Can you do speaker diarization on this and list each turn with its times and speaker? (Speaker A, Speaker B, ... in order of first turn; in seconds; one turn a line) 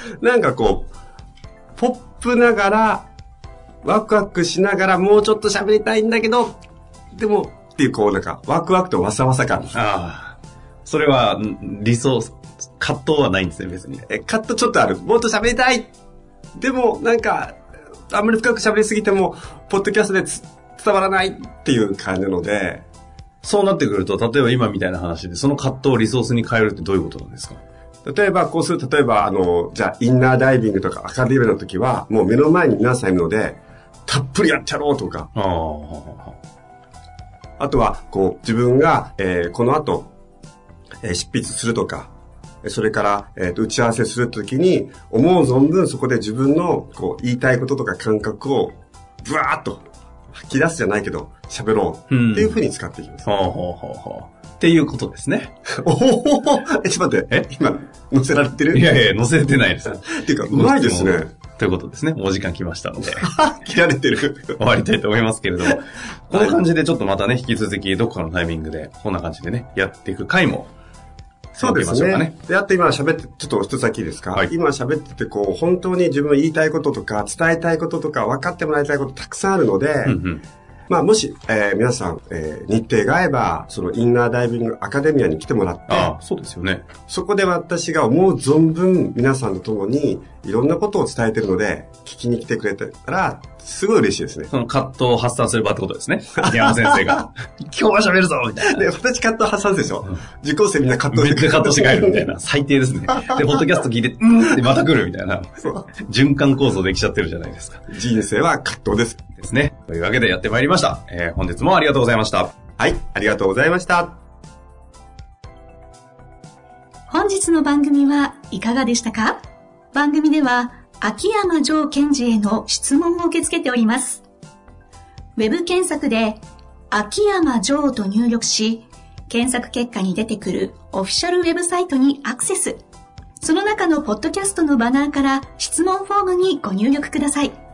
Speaker A: 0.2-0.9
Speaker A: 1.8-3.1
Speaker A: 3.8-6.6
Speaker A: 7.1-9.8
Speaker B: 9.7-14.1
Speaker A: 14.1-15.9
Speaker A: 16.6-17.6
Speaker A: 18.1-22.9
Speaker B: 23.4-27.6
Speaker A: 28.1-35.3
Speaker B: 35.4-36.4
Speaker A: 37.6-40.1
Speaker A: 41.0-42.1
Speaker A: 42.6-53.3
Speaker B: 52.1-52.6
Speaker B: 53.2-55.5
Speaker A: 55.7-58.9
Speaker B: 58.7-63.3
Speaker A: 60.0-61.3
Speaker A: 63.1-64.6
Speaker B: 64.6-70.7
Speaker A: 66.3-66.6
Speaker B: 71.6-72.3
Speaker A: 71.6-80.2
Speaker B: 80.0-80.4
Speaker A: 80.9-86.1
Speaker B: 85.9-86.9
Speaker A: 87.1-94.5
Speaker B: 94.5-98.8
Speaker A: 96.5-97.2
Speaker A: 98.7-102.3
Speaker B: 101.1-107.9
Speaker A: 107.9-109.2
Speaker B: 109.4-112.5
Speaker A: 112.8-114.2
Speaker C: 117.1-119.4
Speaker C: 119.9-124.2
Speaker C: 125.4-132.8
Speaker C: 133.4-137.6